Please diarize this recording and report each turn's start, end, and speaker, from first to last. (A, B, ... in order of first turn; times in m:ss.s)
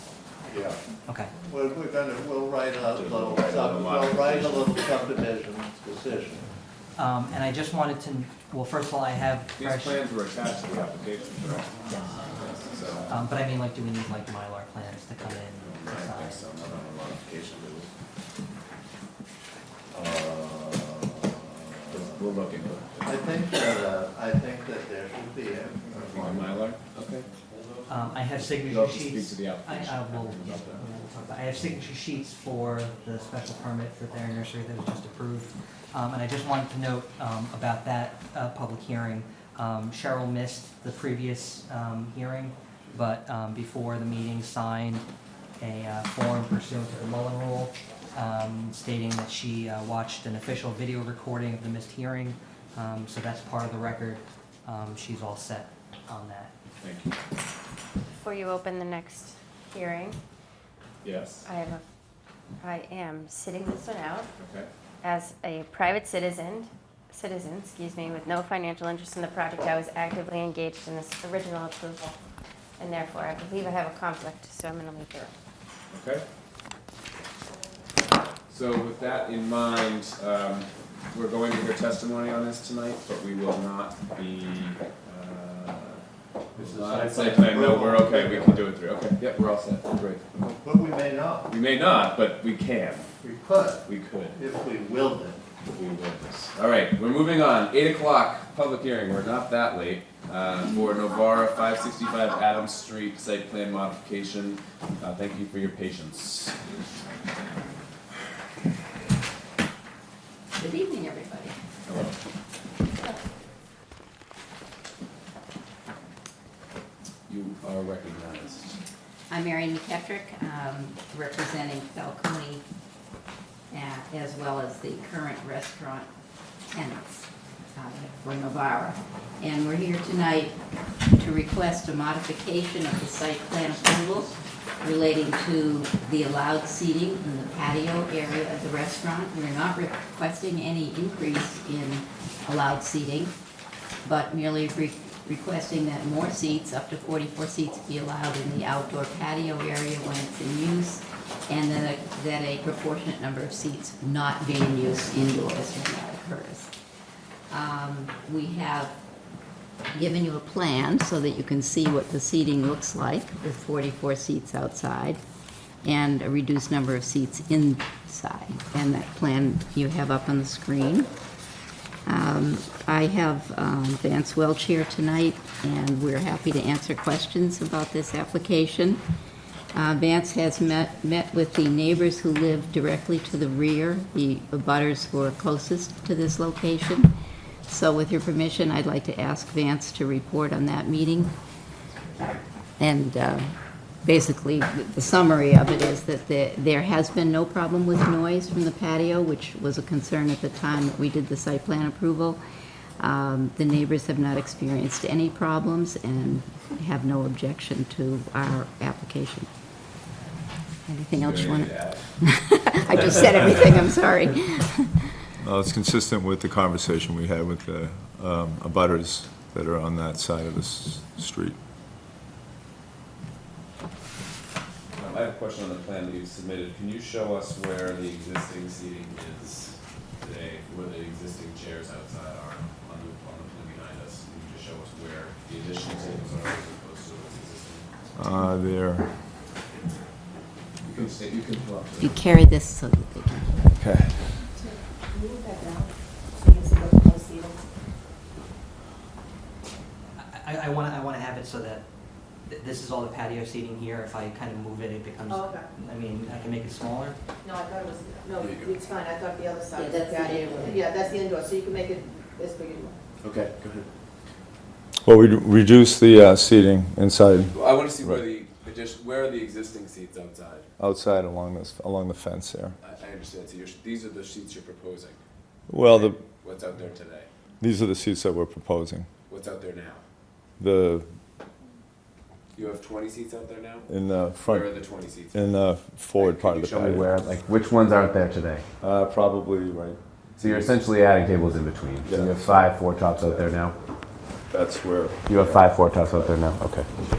0:00.5-0:00.8 A
0:01.1-0:01.3 B
0:01.4-0:06.5 A
0:02.9-0:04.9 C
0:07.0-0:10.0 B
0:09.6-0:13.2 C
0:13.1-0:16.7 B
0:15.6-0:17.9 C
0:19.9-0:22.2 A
0:21.9-0:23.2 C
0:23.0-0:26.6 A
0:26.1-0:27.3 C
0:27.9-0:45.1 B
0:28.5-0:30.9 C
0:45.6-0:56.5 B
0:56.8-0:57.2 C
0:58.1-1:00.2 D
1:01.0-1:01.4 C
1:01.4-1:01.8 D
1:02.6-1:04.3 D
1:04.4-1:04.7 C
1:05.0-1:12.2 D
1:12.8-1:15.3 D
1:15.9-1:16.2 C
1:18.5-1:30.2 C
1:26.6-1:28.7 A
1:30.4-1:31.5 A
1:31.5-1:33.1 C
1:33.2-1:35.4 A
1:33.8-1:34.4 C
1:35.7-1:46.9 C
1:50.6-1:51.6 E
1:51.9-1:52.2 C
1:57.3-1:58.8 C
1:59.3-2:02.6 E
2:03.7-2:06.1 E
2:06.7-2:10.6 E
2:11.2-2:23.3 E
2:24.0-2:36.7 E
2:37.5-2:39.0 E
2:39.9-2:45.2 E
2:45.8-2:51.1 E
2:52.1-2:59.0 E
2:59.7-3:07.1 E
3:07.7-3:11.3 E
3:12.8-3:22.4 E
3:23.0-3:29.5 E
3:30.9-3:35.1 E
3:31.2-3:32.0 C
3:35.4-3:41.6 F
3:44.9-3:57.9 C
3:58.2-3:59.2 F
4:00.8-4:02.2 C
4:02.0-4:03.7 E
4:03.8-4:04.5 F
4:04.6-4:07.6 G
4:10.2-4:11.8 B
4:12.5-4:17.2 B
4:15.3-4:15.6 G
4:17.4-4:23.0 G
4:18.4-4:18.8 C
4:19.7-4:21.1 E
4:23.2-4:23.9 C
4:25.0-4:28.3 F
4:27.5-4:30.7 C
4:30.8-4:32.8 F
4:32.8-4:35.2 C
4:35.7-4:36.2 F
4:35.8-4:37.3 C
4:37.6-4:39.1 F
4:39.3-4:40.0 C
4:40.6-4:41.1 F
4:42.5-4:43.9 C
4:43.9-4:44.8 F
4:44.4-4:45.6 C
4:45.3-4:47.2 F
4:46.2-4:48.6 C
4:48.8-4:50.8 F
4:50.4-4:53.8 C
4:52.1-4:53.5 F
4:54.5-4:56.3 F
4:55.3-4:56.9 C